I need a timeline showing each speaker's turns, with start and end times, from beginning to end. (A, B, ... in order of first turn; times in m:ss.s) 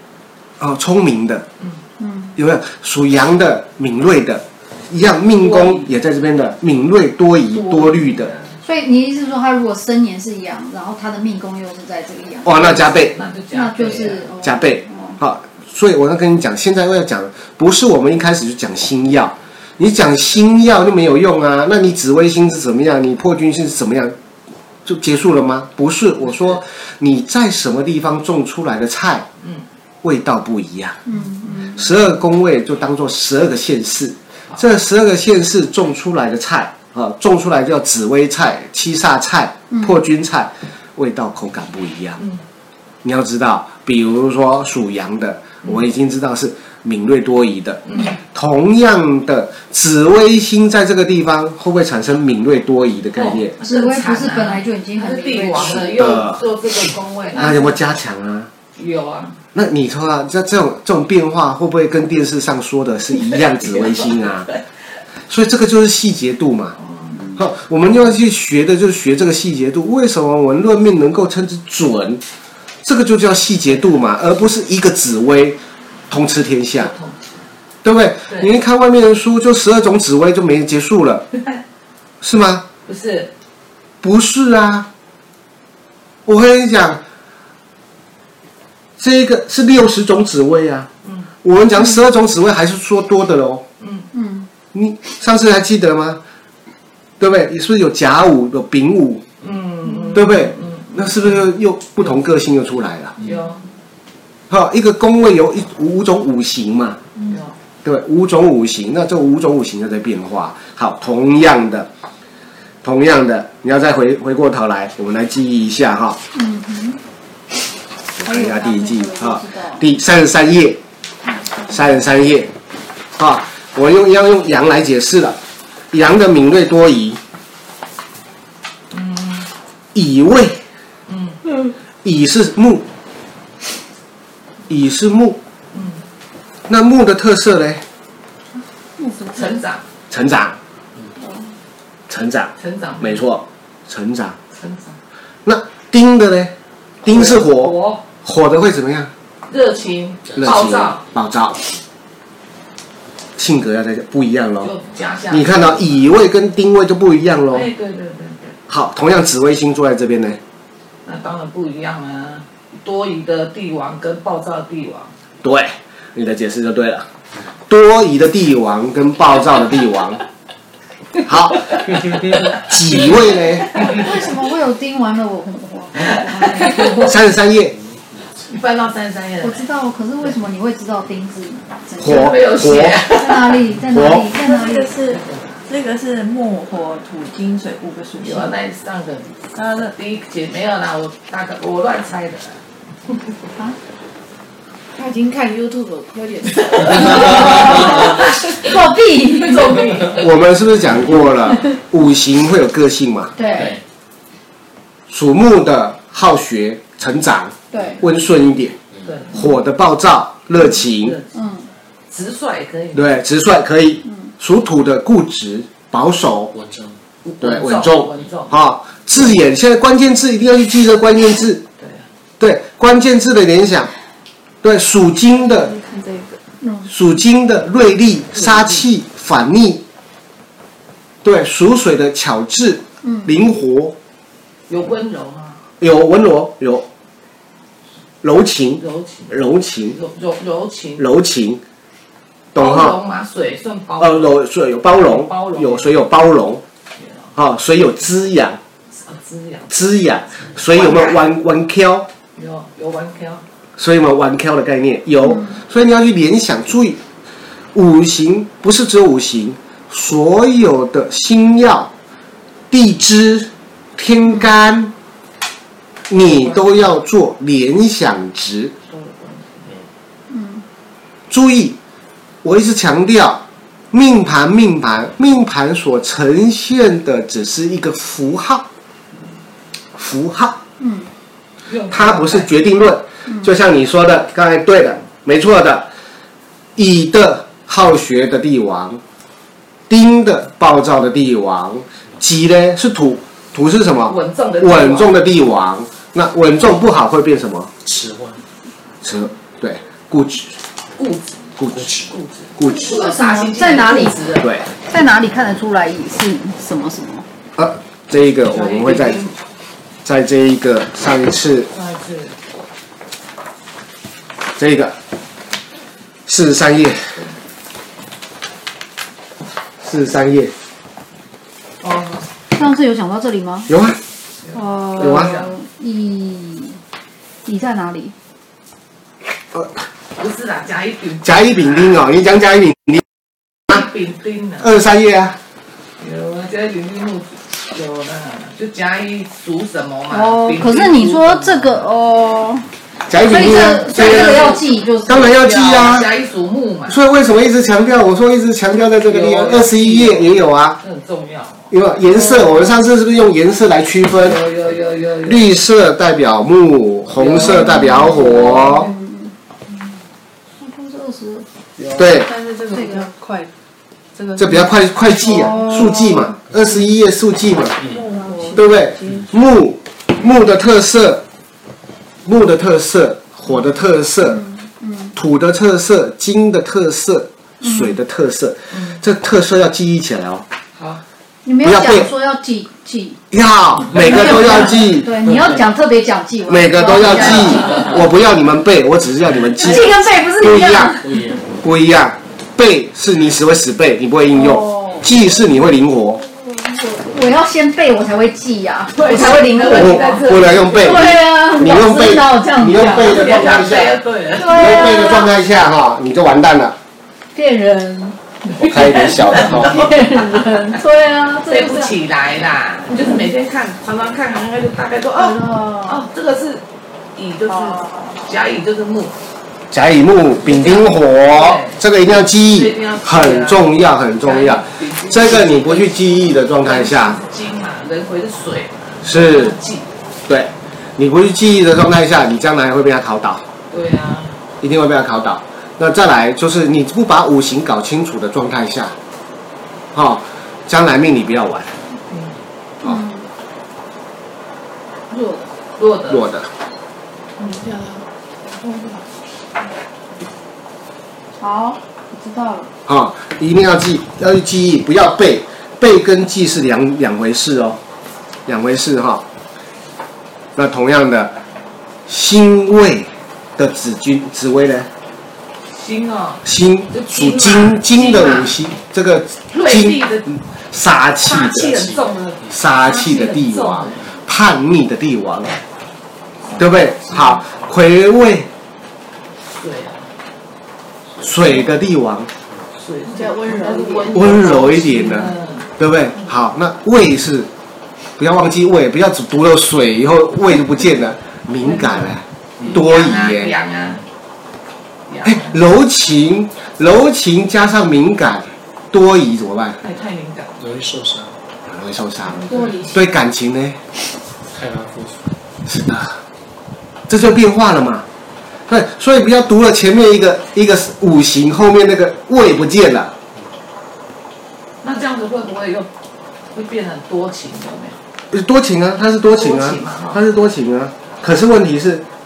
0:00.6-0:01.4 A
0:02.0-0:02.4 B
0:02.4-0:08.3 A
0:05.4-0:05.8 C
0:07.5-0:08.1 B
0:08.6-0:12.8 B
0:12.4-0:13.2 A
0:12.5-0:14.2 C
0:13.5-0:15.2 B
0:14.4-0:24.2 A
0:24.9-0:29.3 A
0:30.0-0:31.1 A
0:31.1-0:31.9 B
0:31.7-0:42.2 A
0:39.7-0:40.0 B
0:43.0-0:53.5 A
0:47.9-0:48.2 C
0:53.2-0:57.8 C
0:53.6-0:55.9 B
0:55.7-0:56.4 A
0:57.4-0:58.5 A
0:58.8-0:59.4 C
0:59.5-1:04.5 A
1:05.3-1:06.8 A
1:06.9-1:07.4 C
1:07.4-1:12.2 A
1:12.8-1:15.6 A
1:16.1-1:16.9 A
1:16.8-1:17.3 C
1:17.8-1:21.3 A
1:22.2-1:22.7 A
1:22.9-1:23.3 C
1:24.0-1:24.9 A
1:26.3-1:27.0 A
1:29.0-1:30.9 A
1:31.4-1:33.6 A
1:33.8-1:34.1 C
1:34.1-1:34.5 B
1:34.7-1:36.2 A
1:37.2-1:39.2 A
1:39.4-1:41.4 C
1:40.1-1:43.2 A
1:43.2-1:43.6 C
1:44.5-1:47.0 A
1:47.3-1:47.5 C
1:47.8-1:51.9 A
1:52.8-1:56.2 A
1:56.3-1:57.0 B
1:58.2-1:59.8 B
1:58.2-2:00.8 A
2:01.7-2:02.5 A
2:03.2-2:05.4 A
2:05.9-2:07.2 A
2:08.9-2:09.5 C
2:09.9-2:10.6 A
2:11.1-2:11.4 C
2:12.0-2:12.9 A
2:14.7-2:15.4 A
2:15.7-2:16.0 C
2:16.7-2:17.8 A
2:19.0-2:19.6 B
2:19.3-2:19.8 C
2:20.1-2:20.6 A
2:21.2-2:21.5 B
2:22.1-2:24.4 A
2:22.6-2:23.2 C
2:24.5-2:25.0 C
2:25.4-2:29.1 A
2:27.1-2:28.0 C
2:29.5-2:31.0 C
2:30.4-2:31.6 A
2:33.4-2:34.7 A
2:34.6-2:36.0 C
2:35.3-2:37.7 A
2:37.5-2:38.6 C
2:38.7-2:40.4 A
2:41.1-2:45.1 C
2:45.4-2:47.1 A
2:47.7-2:50.2 A
2:51.2-2:53.7 A
2:53.6-2:54.3 C
2:53.8-2:57.3 B
2:56.6-2:57.0 C
2:57.0-2:57.8 A
2:58.4-2:59.6 C
2:59.4-3:02.4 B
3:02.0-3:03.0 A
3:02.0-3:03.6 C
3:03.0-3:05.0 B
3:03.9-3:04.3 A
3:04.4-3:08.5 D
3:05.0-3:05.6 C
3:06.1-3:08.4 E
3:08.2-3:12.6 C
3:15.0-3:18.3 E
3:16.6-3:18.6 C
3:16.9-3:19.9 B
3:19.5-3:20.2 C
3:20.1-3:23.4 A
3:23.4-3:23.8 B
3:25.1-3:28.8 A
3:27.7-3:28.0 B
3:29.0-3:29.4 C
3:29.3-3:31.2 A
3:31.0-3:31.3 C
3:31.3-3:31.7 B
3:32.1-3:33.1 C
3:32.9-3:36.6 A
3:37.2-3:38.6 C
3:37.4-3:41.6 A
3:41.8-3:42.1 C
3:42.4-3:43.9 A
3:44.6-3:45.7 A
3:45.4-3:46.3 D
3:45.7-3:46.4 E
3:46.6-3:46.9 B
3:46.9-3:49.8 A
3:48.4-3:48.8 C
3:51.2-3:54.0 A
3:53.0-3:53.3 B
3:54.7-3:55.6 C
3:55.8-3:56.9 A
3:58.2-4:00.0 A
3:58.8-3:59.4 C
4:00.0-4:01.0 C
4:01.0-4:01.6 A
4:02.6-4:03.0 A
4:02.6-4:04.4 C
4:04.0-4:06.6 A
4:04.9-4:06.0 C
4:07.4-4:08.6 A
4:09.0-4:09.7 C
4:09.7-4:12.1 A
4:10.7-4:11.3 C
4:12.4-4:13.4 C
4:13.8-4:17.0 A
4:17.7-4:21.9 A
4:22.7-4:24.9 A
4:26.1-4:28.7 A
4:26.2-4:26.7 C
4:28.9-4:29.8 C
4:30.3-4:30.6 B
4:31.3-4:31.8 A
4:32.4-4:38.7 A
4:40.0-4:40.6 A
4:40.8-4:41.1 B
4:41.6-4:42.5 C
4:41.9-4:45.9 A
4:46.8-4:49.0 A
4:49.9-4:57.7 A
4:54.1-4:55.2 C
4:57.9-4:58.4 F
4:59.0-5:00.6 A
5:01.0-5:01.4 C
5:01.6-5:02.0 A
5:01.7-5:02.0 F
5:02.0-5:04.5 C
5:02.6-5:03.0 A
5:02.6-5:07.3 B
5:04.4-5:04.7 A
5:07.6-5:09.2 A
5:08.5-5:09.4 C
5:10.0-5:11.7 A
5:11.7-5:12.4 C
5:14.6-5:15.0 A
5:16.3-5:17.1 A
5:19.8-5:20.5 A
5:21.8-5:22.3 C
5:22.6-5:23.7 B
5:23.7-5:24.0 A
5:24.5-5:25.5 C
5:24.5-5:26.8 B
5:25.0-5:25.4 A
5:27.4-5:28.2 B
5:30.2-5:32.0 C
5:31.2-5:33.0 A
5:33.7-5:34.7 C
5:34.6-5:35.4 A
5:36.0-5:41.8 C
5:40.1-5:45.3 B
5:43.1-5:46.1 A
5:44.0-5:47.0 C
5:46.9-5:50.8 A
5:49.0-5:51.7 C
5:51.7-5:54.4 A
5:54.2-5:55.5 C
5:55.2-5:58.9 A
5:57.2-5:58.9 C
5:57.4-5:59.3 B
6:00.6-6:01.5 B
6:01.8-6:03.5 E
6:02.0-6:02.3 A
6:02.7-6:03.1 B
6:04.2-6:04.6 E
6:04.4-6:07.8 A
6:05.2-6:06.2 B
6:07.8-6:09.2 E
6:08.5-6:11.2 A
6:12.2-6:14.4 A
6:14.2-6:15.2 B
6:15.2-6:20.5 A
6:17.6-6:18.0 B
6:18.7-6:19.0 C
6:20.8-6:21.0 C
6:21.4-6:23.2 B
6:21.6-6:22.1 A
6:23.3-6:25.1 A
6:23.9-6:28.0 B
6:26.5-6:31.0 A
6:29.6-6:31.2 B
6:31.5-6:36.2 A
6:34.3-6:35.1 B
6:36.2-6:43.6 B
6:39.0-6:41.2 C
6:39.7-6:46.8 A
6:42.9-6:44.6 C
6:44.3-6:45.3 B
6:47.4-6:51.9 B
6:48.6-6:49.9 A
6:48.6-6:49.9 C
6:51.5-6:56.6 C
6:52.9-6:53.2 B
6:55.2-6:56.0 B
6:57.2-6:59.2 C
6:57.5-6:58.2 B
6:59.7-7:07.2 A
7:00.4-7:01.8 C
7:02.4-7:06.0 C
7:06.6-7:09.9 C
7:09.0-7:09.6 A
7:10.3-7:13.4 A
7:13.7-7:14.4 C
7:14.6-7:19.0 A
7:19.9-7:21.7 A
7:22.8-7:23.3 B
7:25.1-7:25.5 B
7:25.8-7:26.3 C
7:26.1-7:26.5 A
7:31.4-7:32.7 B
7:32.9-7:37.8 A
7:38.5-7:39.2 A
7:40.6-7:41.4 A
7:42.1-7:44.9 A
7:45.7-7:48.6 C
7:46.4-7:51.8 A
7:49.5-7:50.3 C
7:51.2-7:54.1 C
7:52.5-7:55.6 A
7:56.6-7:58.5 A
7:57.1-7:57.4 C
7:59.5-8:00.1 C
8:01.2-8:02.3 A
8:02.8-8:05.7 C
8:03.1-8:04.4 E
8:04.1-8:07.5 A
8:08.2-8:13.6 A
8:11.6-8:12.1 C
8:12.6-8:14.0 C
8:15.1-8:15.6 C
8:15.2-8:19.8 A
8:19.8-8:20.6 C
8:20.6-8:21.3 F
8:21.7-8:23.8 A
8:22.5-8:23.0 B
8:24.5-8:25.2 F
8:25.7-8:26.2 A
8:27.1-8:28.1 A
8:28.7-8:33.1 A
8:34.8-8:35.9 C
8:36.5-8:38.0 C
8:38.3-8:42.0 A
8:39.4-8:40.2 C